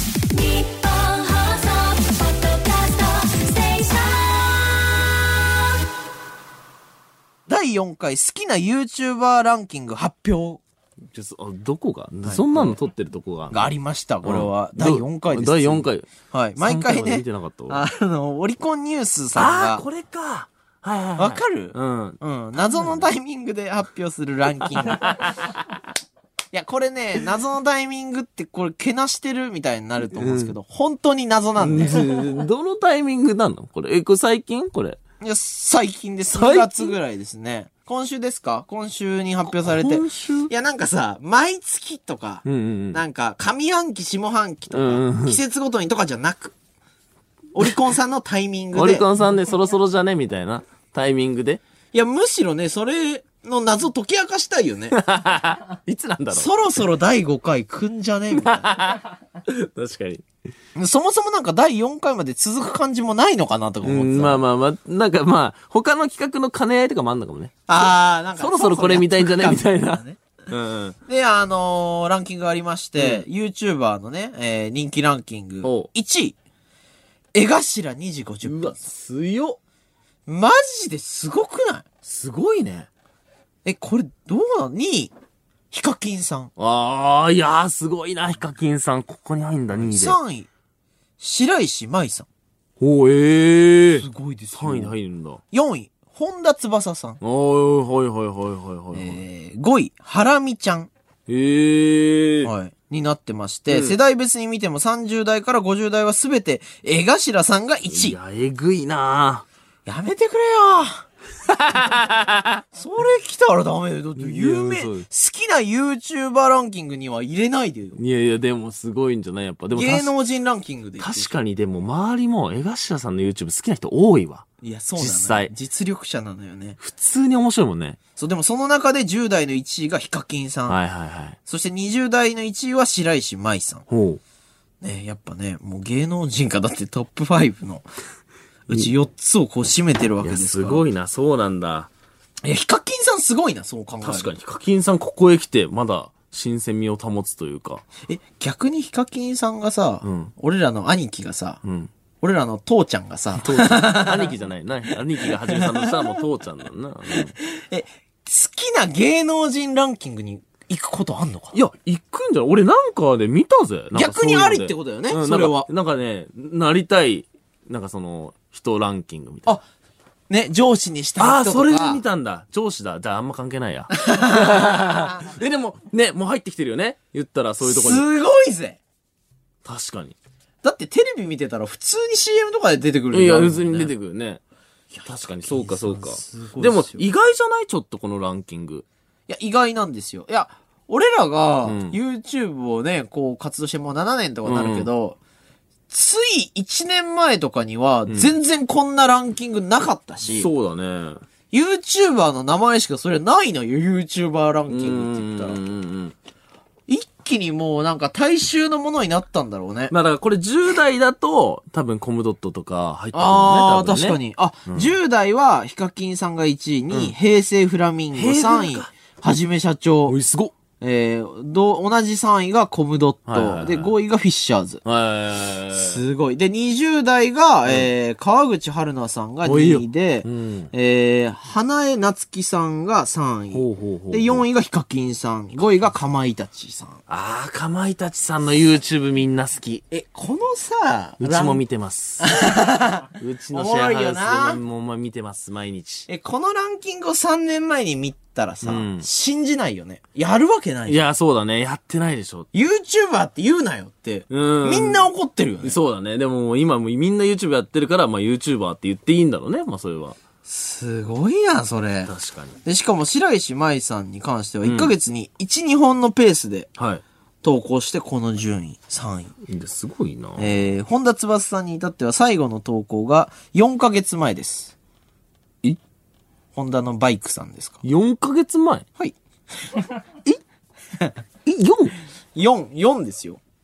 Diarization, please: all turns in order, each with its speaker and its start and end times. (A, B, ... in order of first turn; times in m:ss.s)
0:00.3-0:05.0 A
0:07.5-0:10.6 B
0:11.1-0:17.8 C
0:12.3-0:12.8 B
0:13.5-0:19.8 B
0:19.4-0:22.2 C
0:21.2-0:25.1 B
0:22.7-0:23.0 C
0:24.6-0:25.6 C
0:26.5-0:32.1 B
0:30.1-0:30.6 C
0:31.6-0:35.0 C
0:35.2-0:46.6 B
0:36.3-0:36.9 C
0:39.6-0:40.5 C
0:42.4-0:43.0 C
0:44.7-0:45.4 C
0:47.5-0:49.0 B
0:48.7-0:51.6 C
0:51.9-0:55.0 B
0:54.9-0:56.5 C
0:56.3-0:58.7 B
0:58.4-1:00.2 C
1:00.7-1:04.4 B
1:03.8-1:07.6 C
1:07.7-1:10.2 B
1:08.4-1:11.0 C
1:11.1-1:16.4 B
1:13.0-1:13.2 C
1:15.6-1:15.9 C
1:17.3-1:18.8 B
1:18.4-1:19.6 C
1:20.3-1:21.8 B
1:22.0-1:22.9 C
1:23.6-1:25.1 B
1:25.7-1:26.5 B
1:26.6-1:30.2 C
1:29.8-1:30.5 B
1:31.2-1:32.3 B
1:32.8-1:35.4 C
1:34.0-1:35.0 B
1:35.5-1:37.2 B
1:37.2-1:39.2 C
1:38.9-1:40.9 B
1:41.3-1:42.5 C
1:42.4-1:48.2 B
1:43.7-1:44.0 C
1:47.9-1:49.5 C
1:49.9-1:51.1 B
1:51.5-1:52.6 C
1:52.7-1:58.0 B
1:54.2-1:55.0 C
1:58.0-2:00.1 C
1:59.7-2:01.3 B
2:01.0-2:04.5 C
2:04.6-2:06.8 B
2:05.0-2:05.5 C
2:06.8-2:08.0 C
2:08.2-2:10.8 B
2:10.7-2:11.4 C
2:11.5-2:13.8 B
2:13.9-2:14.2 C
2:14.8-2:17.9 B
2:18.7-2:20.8 B
2:20.2-2:21.9 C
2:22.4-2:24.3 B
2:24.0-2:27.8 C
2:28.0-2:31.6 B
2:30.0-2:30.3 C
2:31.6-2:31.9 C
2:32.2-2:34.3 B
2:33.4-2:37.3 C
2:35.2-2:36.2 B
2:37.1-2:41.5 B
2:41.5-2:49.6 C
2:43.9-2:45.7 B
2:50.3-2:52.0 B
2:51.2-2:58.1 C
2:54.0-2:54.8 B
2:57.6-2:58.8 B
2:59.6-3:00.2 C
3:00.6-3:03.9 B
3:03.1-3:04.4 C
3:04.9-3:07.0 B
3:05.0-3:08.8 C
3:09.3-3:15.2 B
3:11.7-3:12.0 C
3:14.4-3:14.9 C
3:15.9-3:20.5 B
3:18.1-3:18.3 C
3:20.3-3:21.2 C
3:21.5-3:25.6 B
3:24.7-3:26.2 C
3:26.9-3:29.9 B
3:29.9-3:34.9 C
3:33.1-3:40.2 B
3:38.1-3:38.9 C
3:40.1-3:40.5 C
3:40.8-3:44.8 B
3:43.3-3:43.9 C
3:44.8-3:46.0 C
3:45.7-3:57.0 B
3:49.4-3:50.7 C
3:53.5-3:54.4 C
3:57.1-3:59.8 C
3:59.9-4:01.6 B
4:01.2-4:02.3 C
4:02.2-4:04.6 B
4:03.2-4:06.1 C
4:06.1-4:11.0 B
4:08.6-4:09.1 C
4:10.9-4:12.5 C
4:12.5-4:15.8 B
4:14.3-4:15.0 C
4:15.6-4:20.2 C
4:20.4-4:22.1 B
4:22.0-4:22.6 C
4:22.6-4:26.7 B
4:24.6-4:24.9 C
4:26.8-4:27.0 C
4:27.4-4:29.3 B
4:29.5-4:30.7 C
4:30.4-4:34.7 B
4:36.5-4:37.8 B
4:37.8-4:38.8 C
4:41.4-4:41.9 C
4:42.3-4:43.4 B